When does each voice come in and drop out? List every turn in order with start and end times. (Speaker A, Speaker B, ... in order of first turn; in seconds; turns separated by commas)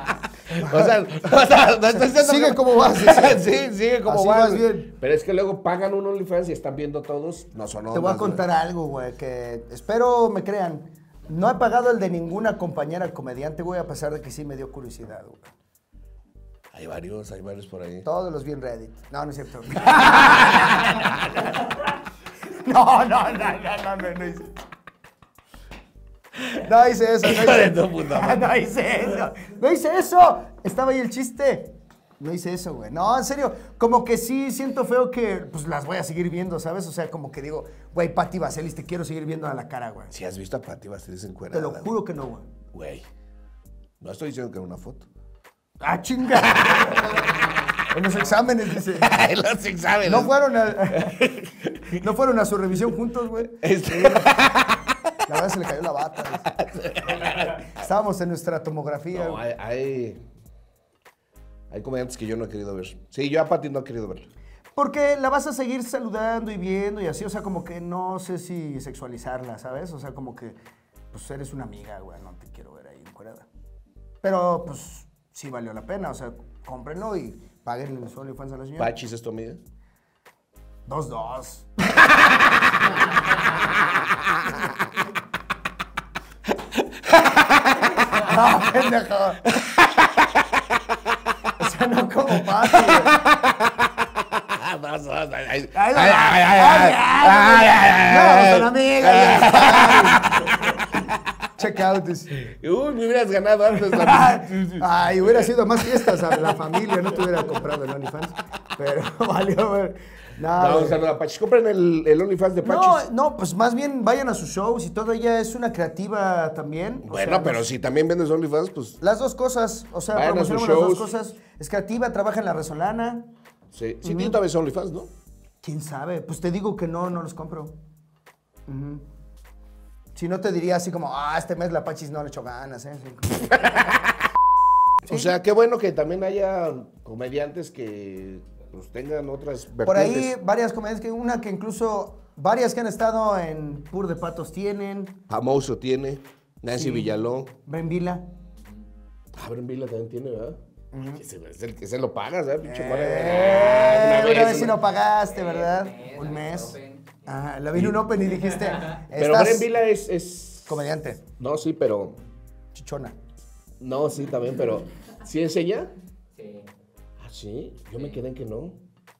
Speaker A: 0.5-8.4, Speaker B: 0.6-0.9, Speaker B: 1.9-3.5, Speaker B: 4.1-4.9, Speaker B: 7.9-15.5, Speaker A: 16.7-18.1, Speaker B: 18.0-20.8, Speaker A: 19.9-21.4, Speaker B: 22.5-24.5, Speaker B: 26.6-40.1, Speaker A: 27.2-28.5, Speaker A: 40.1-41.9, Speaker B: 41.5-42.5, Speaker A: 42.7-43.0, Speaker A: 44.0-45.1, Speaker B: 45.8-47.2, Speaker A: 46.3-47.2, Speaker B: 47.9-49.1, Speaker A: 48.9-52.0, Speaker B: 50.0-51.2, Speaker B: 52.0-54.4, Speaker A: 53.4-55.0, Speaker B: 55.3-56.5, Speaker A: 56.5-57.7, Speaker B: 57.6-59.4, Speaker A: 59.1-60.2, Speaker A: 61.7-64.3, Speaker B: 64.8-70.6, Speaker B: 71.1-73.5, Speaker B: 74.2-78.9, Speaker A: 78.8-79.6, Speaker B: 80.9-81.7, Speaker A: 83.9-84.5, Speaker A: 86.7-88.1, Speaker B: 88.2-89.5, Speaker A: 89.5-90.8, Speaker B: 91.6-93.2, Speaker A: 92.6-101.2, Speaker B: 95.7-100.3, Speaker B: 101.6-102.3, Speaker A: 102.4-107.4, Speaker B: 103.8-111.0, Speaker A: 110.5-113.1, Speaker B: 112.6-117.6, Speaker A: 117.0-119.0, Speaker B: 119.0-123.3, Speaker A: 120.1-121.1, Speaker A: 123.7-125.1, Speaker B: 124.0-124.4, Speaker B: 125.6-127.8, Speaker B: 128.7-129.0, Speaker B: 130.2-133.7, Speaker A: 133.6-134.0, Speaker A: 135.0-140.3, Speaker B: 135.1-135.3, Speaker B: 139.8-145.2, Speaker A: 145.3-147.5, Speaker B: 146.7-148.3, Speaker C: 148.6-148.9, Speaker A: 149.3-150.6, Speaker B: 150.9-151.2, Speaker A: 151.1-154.8, Speaker B: 152.6-156.7, Speaker C: 155.2-157.2, Speaker B: 157.3-159.7, Speaker A: 157.7-158.0, Speaker A: 159.1-162.2, Speaker B: 160.7-161.2, Speaker B: 162.7-163.2, Speaker A: 163.8-165.9, Speaker C: 166.3-166.7, Speaker A: 167.2-168.8